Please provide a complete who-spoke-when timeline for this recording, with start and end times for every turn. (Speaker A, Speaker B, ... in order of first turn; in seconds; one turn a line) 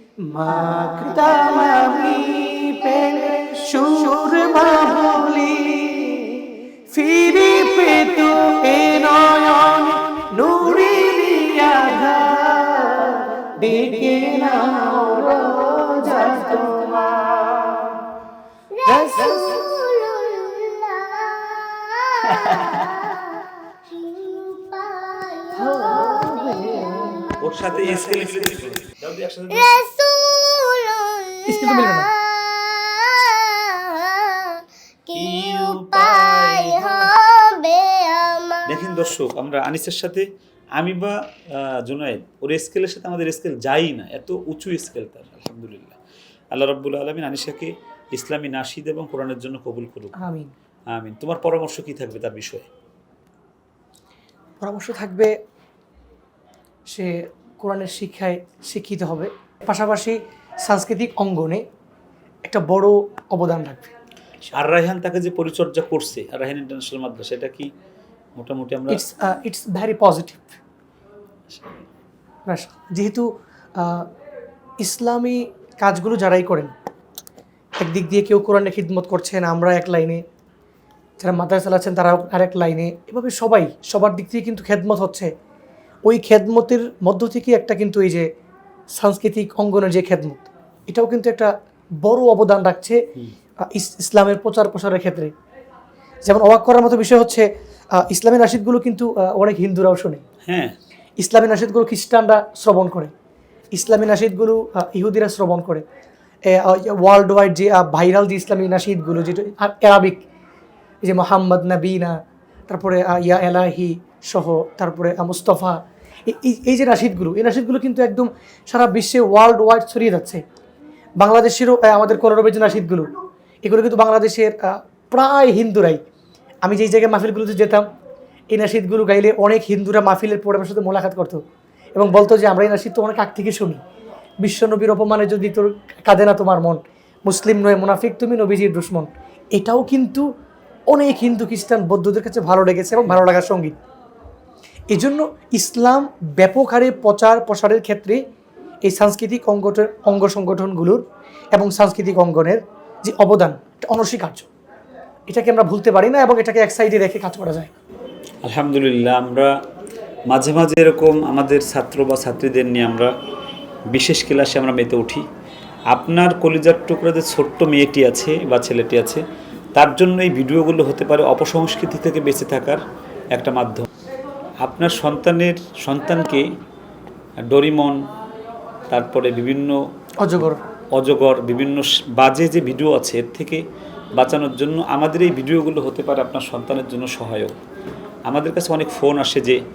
Speaker A: 0.2-17.9
Speaker B: 18.7-27.4
Speaker A: 18.9-19.2
Speaker A: 25.7-26.9
Speaker C: 27.4-29.7
Speaker A: 27.9-28.4
Speaker B: 29.5-38.9
Speaker A: 31.5-32.1
Speaker C: 35.2-37.1
Speaker C: 38.7-46.0
Speaker C: 46.5-50.1
Speaker A: 50.2-50.5
Speaker C: 50.9-52.7
Speaker A: 54.6-55.3
Speaker A: 56.9-61.6
Speaker A: 62.5-63.9
Speaker C: 64.5-67.7
Speaker C: 68.4-69.0
Speaker A: 68.9-70.6
Speaker C: 71.5-71.8
Speaker A: 72.5-74.0
Speaker A: 74.8-76.7
Speaker A: 77.8-80.2
Speaker A: 81.2-85.3
Speaker A: 86.0-88.3
Speaker A: 88.9-91.5
Speaker A: 92.0-93.0
Speaker A: 93.7-95.3
Speaker A: 96.2-100.2
Speaker C: 100.5-100.7
Speaker A: 101.2-103.1
Speaker A: 103.7-105.8
Speaker A: 106.5-110.2
Speaker A: 111.0-112.2
Speaker A: 112.7-120.4
Speaker A: 121.2-123.1
Speaker A: 123.6-126.0
Speaker A: 126.6-127.8
Speaker A: 128.5-131.4
Speaker A: 131.9-133.8
Speaker A: 134.4-140.2
Speaker A: 140.9-143.7
Speaker A: 144.9-148.2
Speaker A: 148.8-151.0
Speaker A: 151.5-154.5
Speaker A: 155.3-157.7
Speaker C: 158.4-159.5
Speaker C: 160.3-163.1
Speaker C: 163.9-165.2
Speaker C: 165.9-169.2
Speaker C: 169.8-172.8
Speaker C: 173.3-173.9
Speaker C: 174.6-176.4
Speaker C: 177.4-178.0
Speaker C: 178.9-179.8
Speaker A: 180.2-180.6
Speaker C: 180.4-183.6
Speaker C: 184.2-187.6
Speaker C: 188.3-189.6